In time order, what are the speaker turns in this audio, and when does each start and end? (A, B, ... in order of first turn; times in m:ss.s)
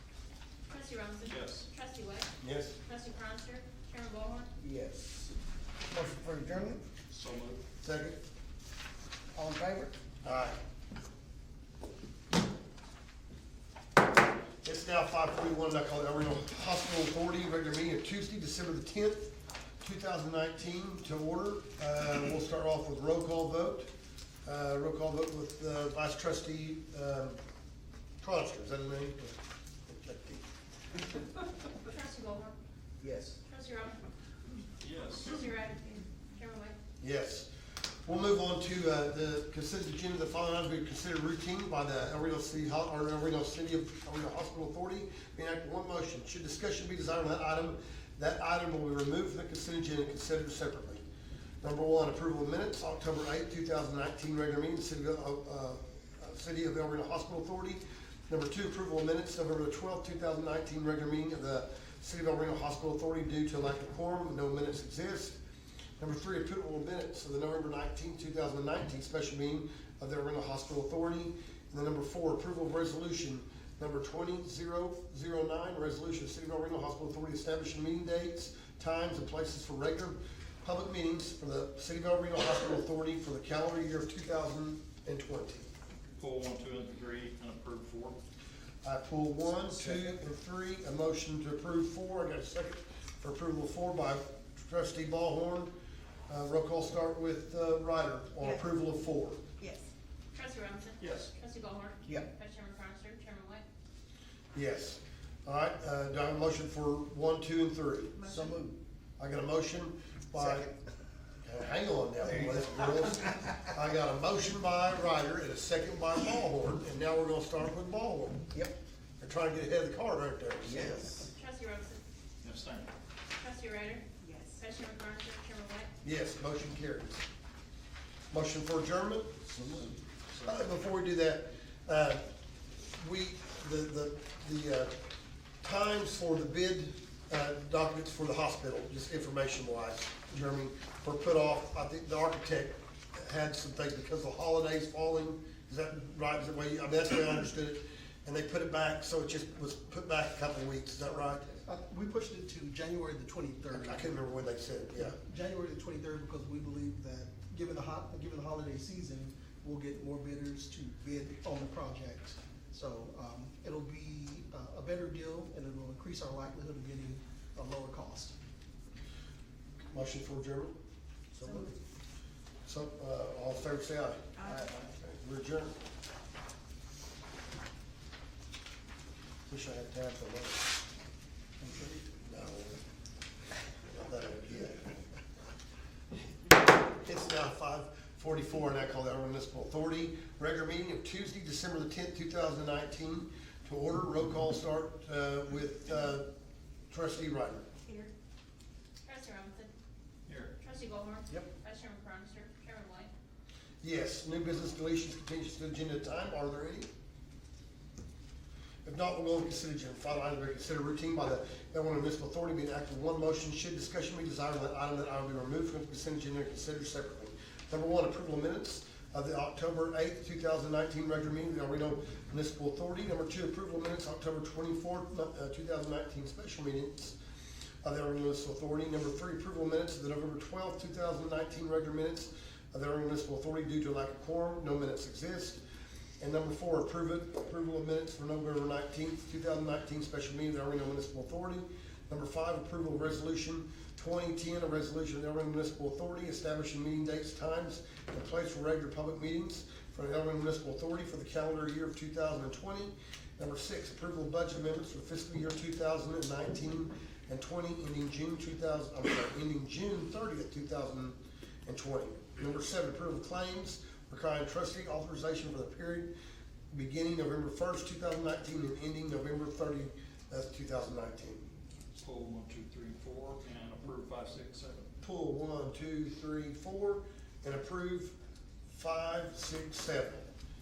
0:00.7-0:02.3 A
0:01.2-0:01.7 B
0:02.4-0:02.8 C
0:02.8-0:04.5 A
0:04.6-0:05.3 D
0:05.9-0:06.8 D
0:07.1-0:07.6 B
0:07.8-0:08.2 C
0:09.4-0:10.0 D
0:10.2-0:10.6 C
0:14.6-0:23.9 C
0:24.4-0:27.4 C
0:28.2-0:29.4 C
0:29.9-0:30.4 C
0:31.9-0:32.6 A
0:33.0-0:33.4 D
0:33.5-0:34.0 A
0:34.8-0:35.4 B
0:35.3-0:36.7 A
0:37.0-0:37.5 C
0:38.0-0:51.0 C
0:51.6-1:05.4 C
1:06.0-1:25.7 C
1:26.2-1:28.2 B
1:28.8-1:35.7 C
1:29.8-1:30.1 D
1:36.3-1:39.4 C
1:39.6-1:39.9 E
1:40.3-1:43.6 A
1:41.0-1:41.3 B
1:42.0-1:42.3 D
1:44.5-1:48.2 C
1:48.2-1:48.5 E
1:48.2-1:48.8 D
1:49.2-1:50.7 C
1:50.3-1:50.7 D
1:51.4-1:58.5 C
1:59.2-2:01.1 C
2:00.7-2:01.3 D
2:01.3-2:02.0 A
2:02.4-2:02.9 B
2:03.4-2:04.1 A
2:04.3-2:04.6 E
2:04.6-2:05.9 A
2:06.0-2:07.2 C
2:08.3-2:09.6 C
2:09.7-2:10.7 B
2:10.4-2:12.2 C
2:12.8-2:14.9 C
2:15.6-2:31.6 C
2:31.6-2:33.9 F
2:33.7-2:35.2 C
2:35.3-2:48.3 F
2:49.9-2:50.7 C
2:51.4-2:51.7 C
2:51.4-2:51.7 E
2:52.7-2:55.8 C
2:54.4-2:54.7 E
2:59.5-3:00.8 C
3:01.6-3:02.0 D
3:02.2-3:02.8 C
3:03.9-3:04.8 C
3:07.0-3:16.3 C
3:16.9-3:17.7 C
3:17.8-3:18.1 E
3:19.0-3:19.7 A
3:20.3-3:20.5 B
3:20.6-3:23.1 A
3:23.8-3:26.9 C
3:28.8-3:47.2 C
3:47.8-3:55.6 C
3:56.2-4:26.1 C
4:26.7-4:31.4 C
4:32.0-4:34.9 B
4:35.0-4:38.1 C
4:38.7-4:40.3 C